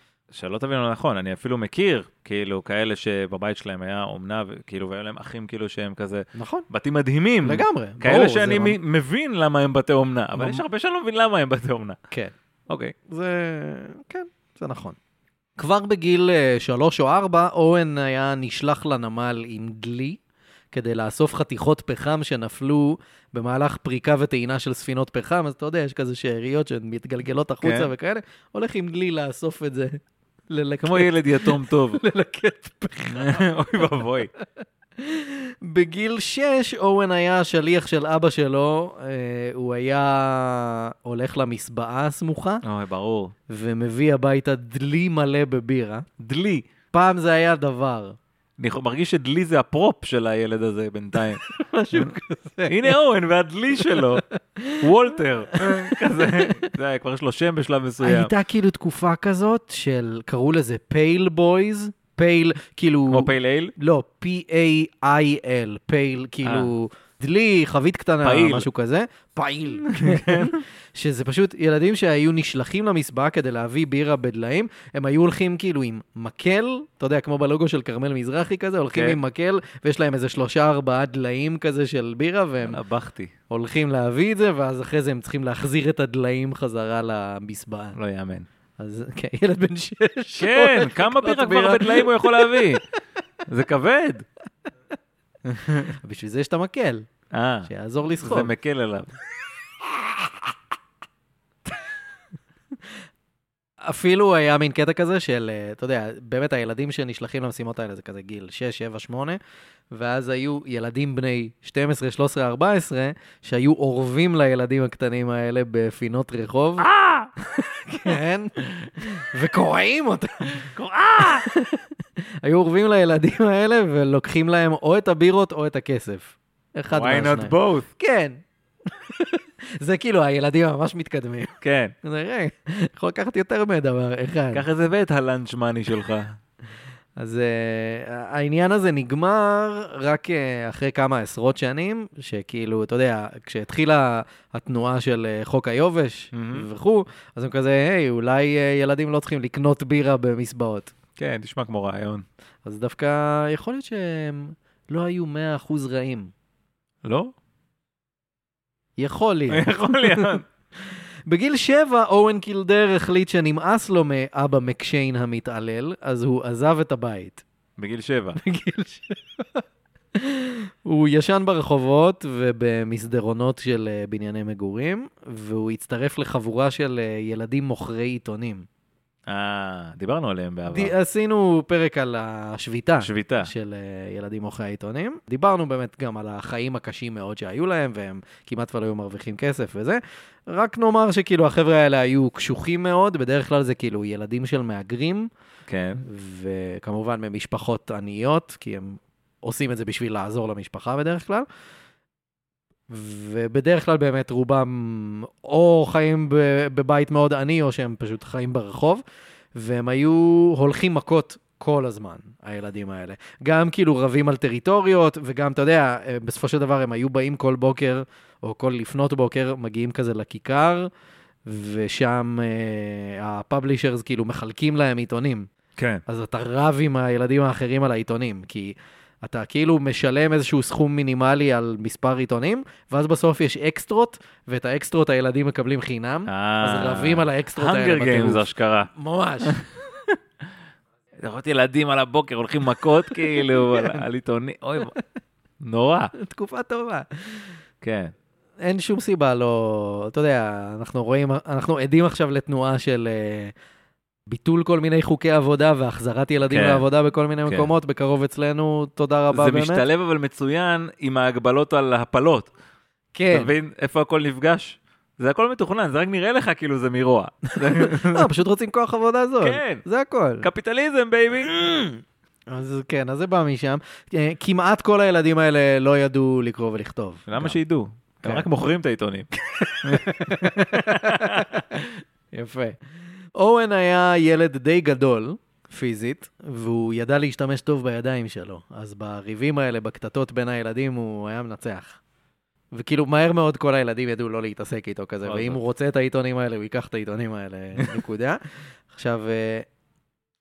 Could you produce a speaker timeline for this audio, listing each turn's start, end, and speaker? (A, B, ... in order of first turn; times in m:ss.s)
0:00.3-0:12.0 A
0:06.4-0:06.7 B
0:07.4-0:08.8 B
0:10.4-0:10.6 B
0:12.7-0:12.9 A
0:13.1-0:15.0 B
0:15.6-0:20.2 B
0:20.7-0:34.0 B
0:27.6-0:27.9 A
0:30.8-0:32.0 A
0:33.1-0:34.3 A
0:35.0-0:42.6 B
0:42.6-0:43.3 A
0:43.5-0:46.1 B
0:46.2-0:46.7 A
0:46.9-0:48.2 B
0:48.6-0:52.2 A
0:51.4-0:53.0 B
0:52.7-0:54.2 A
0:53.9-0:54.9 B
0:54.8-0:58.3 A
0:55.5-0:56.7 B
0:58.0-1:22.8 B
1:03.1-1:03.7 A
1:06.4-1:06.7 A
1:08.2-1:08.7 A
1:09.8-1:10.6 A
1:18.9-1:19.2 A
1:22.7-1:23.3 A
1:23.5-1:28.0 B
1:28.0-1:28.5 A
1:28.8-1:32.8 B
1:30.4-1:32.8 A
1:33.5-1:34.3 A
1:35.5-1:36.0 A
1:36.0-1:37.0 B
1:37.3-1:39.1 A
1:37.7-1:38.5 B
1:43.8-1:49.4 B
1:49.9-1:56.9 B
1:56.8-1:57.3 A
1:57.4-2:01.9 B
2:00.6-2:01.5 A
2:02.4-2:14.6 B
2:06.9-2:07.9 A
2:11.6-2:12.0 A
2:14.5-2:16.4 A
2:17.2-2:30.9 B
2:26.3-2:26.7 A
2:31.2-2:32.2 A
2:32.6-2:36.3 B
2:37.0-2:37.3 A
2:39.0-2:47.4 B
2:39.5-2:40.4 A
2:47.8-2:48.4 A
2:48.4-2:49.6 B
2:50.2-2:58.7 B
2:59.3-3:00.9 A
3:00.7-3:15.3 B
3:03.0-3:03.5 A
3:15.7-3:16.0 A
3:16.0-3:21.5 B
3:22.9-3:29.0 B
3:29.6-3:40.9 B
3:41.5-3:45.5 B
3:45.8-3:46.0 A
3:46.1-3:59.6 B
3:56.3-3:58.9 A
3:59.5-4:00.2 A
4:01.2-4:05.0 A
4:03.1-4:04.0 B
4:05.6-4:06.1 A
4:06.2-4:07.6 B
4:07.8-4:08.1 A
4:08.6-4:13.5 B
4:14.3-4:19.8 B
4:16.5-4:16.8 A
4:19.3-4:22.5 A
4:23.2-4:23.5 B
4:23.3-4:28.3 A
4:27.5-4:30.5 B
4:29.4-4:29.8 A
4:30.4-4:31.5 A
4:31.4-4:37.6 B
4:37.3-4:39.3 A
4:39.6-4:42.8 B
4:39.8-4:41.6 A
4:43.4-4:52.0 B
4:52.7-4:59.7 B
4:55.2-4:55.6 A